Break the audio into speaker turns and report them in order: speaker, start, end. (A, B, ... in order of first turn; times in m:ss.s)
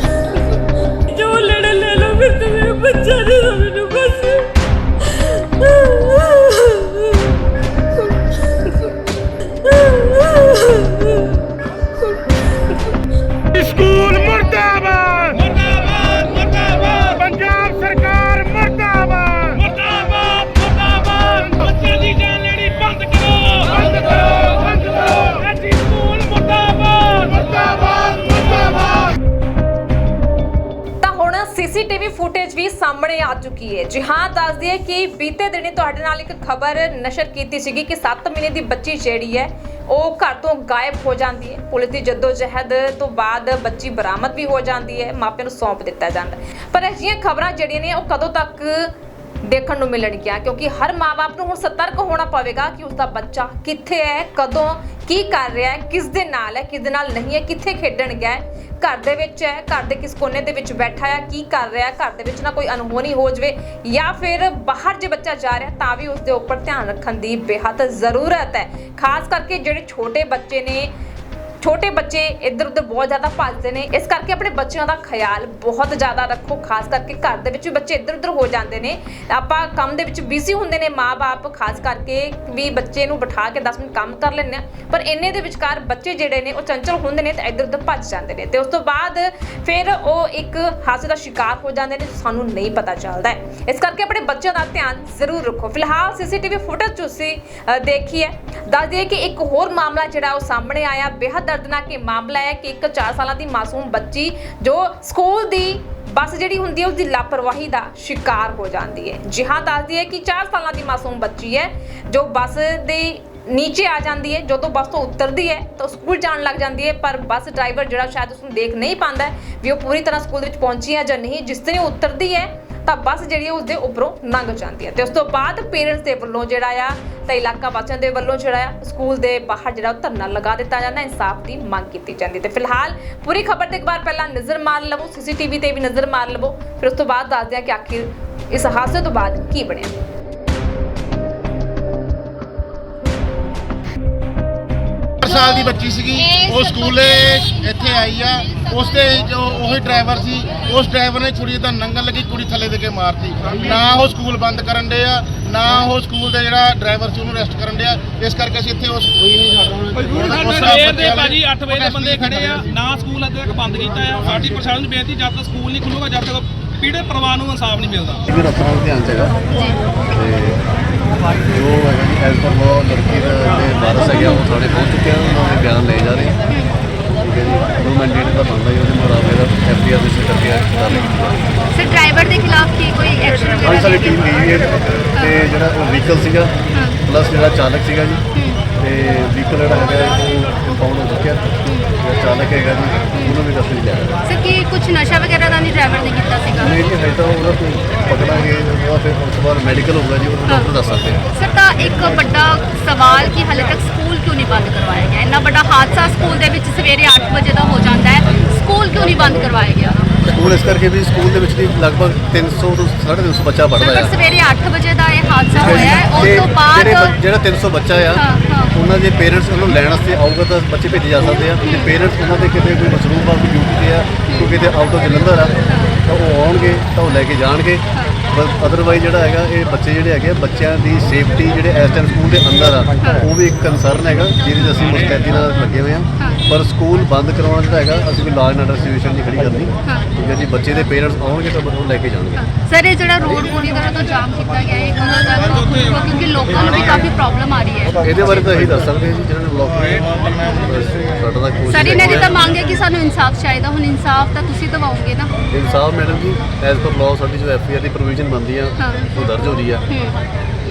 0:01.1-0:04.4 A
0:05.8-0:06.8 A
0:10.0-0:10.7 A
0:13.5-0:15.2 B
0:15.3-0:18.1 C
0:17.3-0:19.5 B
0:19.5-0:29.1 C
0:31.0-0:48.9 D
0:49.4-1:10.9 D
1:11.6-2:19.9 D
2:25.2-2:42.6 B
2:39.9-2:48.2 C
2:48.3-2:49.4 E
2:49.5-2:49.8 A
2:50.1-2:50.6 E
2:51.4-2:56.4 E
2:57.2-3:01.4 E
3:00.9-3:01.1 A
3:01.7-3:04.2 A
3:03.6-3:08.2 E
3:05.1-3:05.4 A
3:06.7-3:07.0 A
3:08.3-3:08.6 A
3:08.8-3:14.2 E
3:11.6-3:11.9 A
3:13.1-3:13.4 A
3:14.2-3:16.8 A
3:16.6-3:21.2 E
3:21.3-3:30.1 A
3:30.2-3:34.1 E
3:33.8-3:37.2 A
3:35.5-3:45.5 E
3:38.1-3:38.7 A
3:41.6-3:41.9 A
3:44.3-3:44.5 A
3:45.7-3:46.0 A
3:46.0-4:02.4 E
3:47.9-3:48.2 A
3:53.0-3:53.2 A
3:59.8-4:00.1 A
4:02.3-4:08.0 A
4:08.0-4:12.5 E
4:11.7-4:15.3 A
4:15.5-4:19.8 E
4:18.8-4:19.2 A
4:19.9-4:20.2 A